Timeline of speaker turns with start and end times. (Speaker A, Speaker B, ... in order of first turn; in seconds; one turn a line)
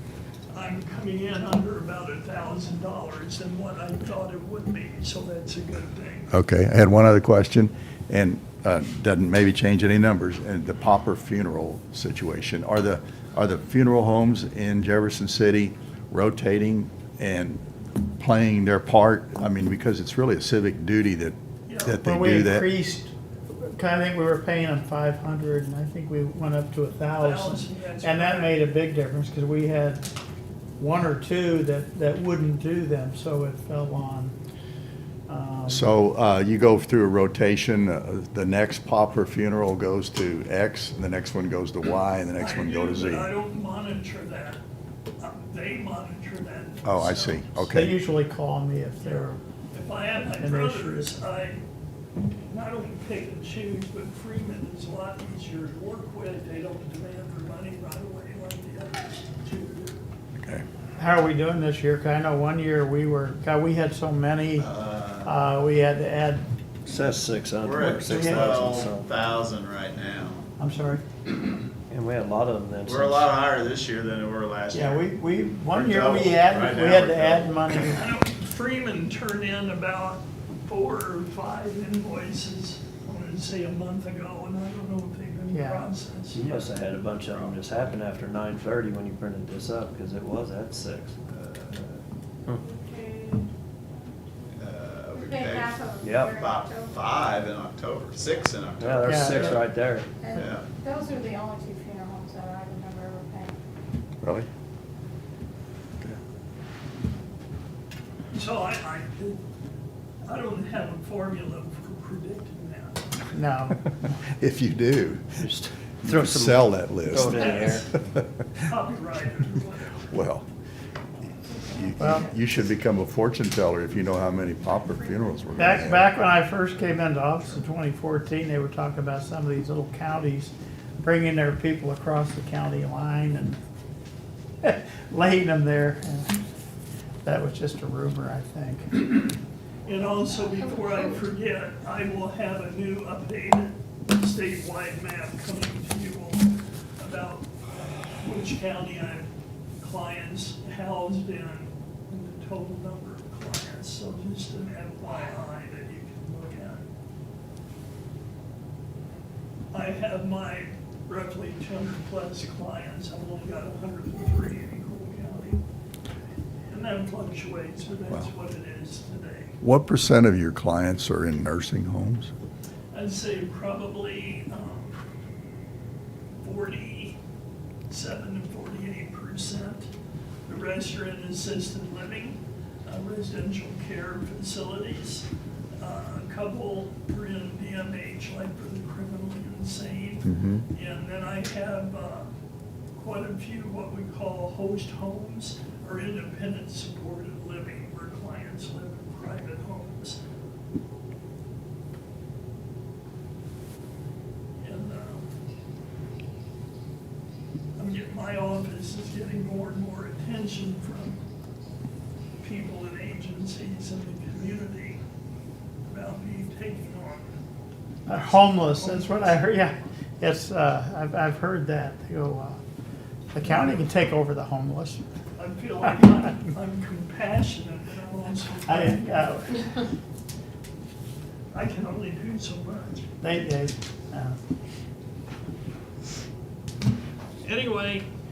Speaker A: 0.5-6.3
Speaker B: 6.3-17.6
Speaker B: 18.2-21.3
Speaker A: 21.6-22.0
Speaker B: 21.9-22.7
Speaker C: 22.0-30.1
Speaker A: 27.2-28.6
Speaker C: 30.8-34.3
Speaker C: 35.3-35.9
Speaker B: 35.7-43.3
Speaker A: 42.4-44.6
Speaker A: 45.2-47.5
Speaker B: 46.8-48.0
Speaker C: 47.7-49.4
Speaker A: 49.7-51.6
Speaker C: 50.4-51.1
Speaker A: 52.5-60.0
Speaker B: 60.4-60.6
Speaker C: 61.0-64.7
Speaker D: 64.6-65.3
Speaker C: 65.2-66.5
Speaker E: 66.8-69.1
Speaker D: 67.6-70.5
Speaker C: 68.0-68.5
Speaker C: 70.6-71.0
Speaker E: 71.9-73.3
Speaker D: 72.8-75.1
Speaker C: 74.7-78.1
Speaker D: 75.7-77.6
Speaker A: 77.8-86.4
Speaker C: 85.5-85.9
Speaker E: 86.3-91.2
Speaker D: 91.3-92.0
Speaker F: 92.5-93.5
Speaker D: 94.5-99.6
Speaker F: 95.1-97.0
Speaker E: 96.0-96.4
Speaker E: 98.8-100.1
Speaker C: 99.0-99.5
Speaker F: 100.2-103.5
Speaker D: 100.3-100.7
Speaker B: 104.2-104.5
Speaker A: 108.3-109.4
Speaker A: 110.2-113.1
Speaker C: 113.3-114.1
Speaker B: 114.4-115.4
Speaker E: 115.4-117.8
Speaker B: 116.0-117.4
Speaker A: 117.2-117.9
Speaker A: 118.6-120.0
Speaker B: 120.1-120.4
Speaker B: 121.7-126.1
Speaker C: 122.0-122.3
Speaker C: 125.6-133.6
Speaker C: 134.6-136.4
Speaker C: 137.2-139.1
Speaker A: 139.8-147.5
Speaker A: 148.2-156.9
Speaker A: 159.7-165.6
Speaker A: 166.7-169.6
Speaker B: 169.6-172.3
Speaker A: 172.9-175.0
Speaker A: 176.4-177.2
Speaker A: 177.9-179.9
Speaker A: 180.4-192.3
Speaker B: 190.2-190.6
Speaker A: 192.9-200.2
Speaker A: 204.6-205.2
Speaker A: 207.8-211.2
Speaker A: 212.4-215.0
Speaker A: 215.9-217.3
Speaker C: 218.1-222.6
Speaker A: 218.1-219.4
Speaker C: 223.3-225.0
Speaker A: 223.4-223.8
Speaker A: 225.4-229.3
Speaker C: 228.7-229.5
Speaker A: 231.5-233.1
Speaker C: 233.2-234.4
Speaker A: 237.4-238.1